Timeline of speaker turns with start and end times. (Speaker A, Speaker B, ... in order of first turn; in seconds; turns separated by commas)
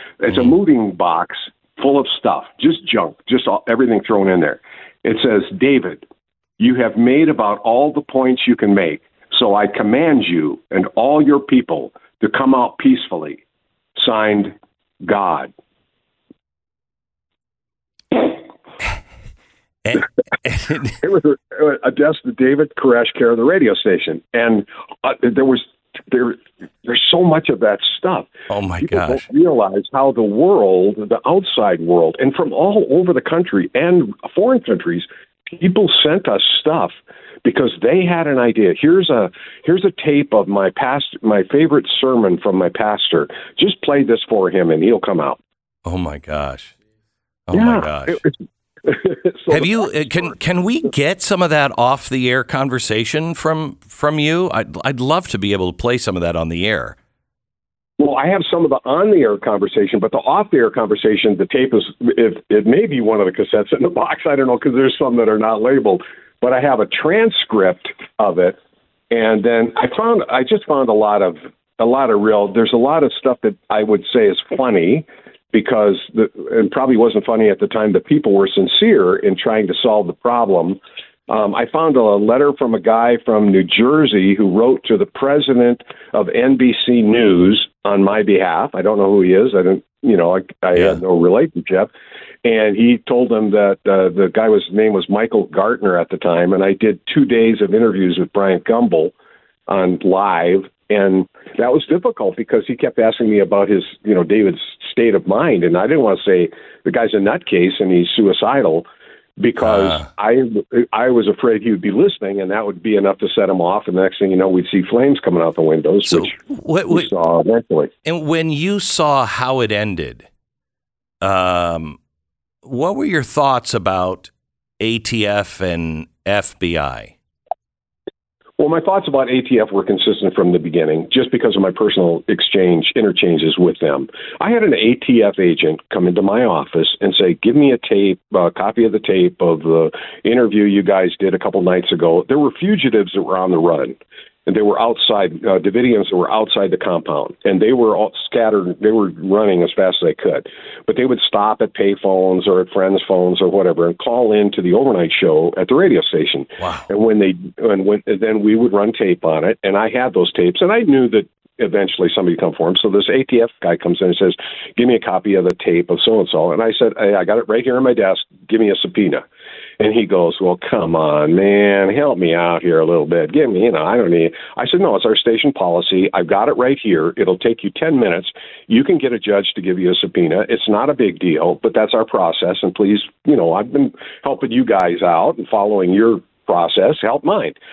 Speaker A: 0.2-6.0, Speaker A: 6.6-13.4, Speaker A: 14.0-15.5, Speaker B: 19.8-21.0, Speaker A: 21.0-45.4, Speaker B: 28.5-29.3, Speaker B: 45.8-46.7, Speaker B: 47.5-48.2, Speaker A: 47.5-48.3, Speaker A: 48.8-50.3, Speaker B: 49.5-57.0, Speaker A: 58.0-68.6, Speaker A: 69.1-91.9, Speaker B: 90.7-91.0, Speaker A: 92.4-99.1, Speaker A: 99.7-117.9, Speaker B: 109.6-110.0, Speaker B: 116.1-117.1, Speaker B: 118.0-120.2, Speaker B: 121.2-122.0, Speaker B: 122.6-127.1, Speaker A: 128.6-169.2, Speaker B: 156.6-156.9, Speaker A: 169.8-187.6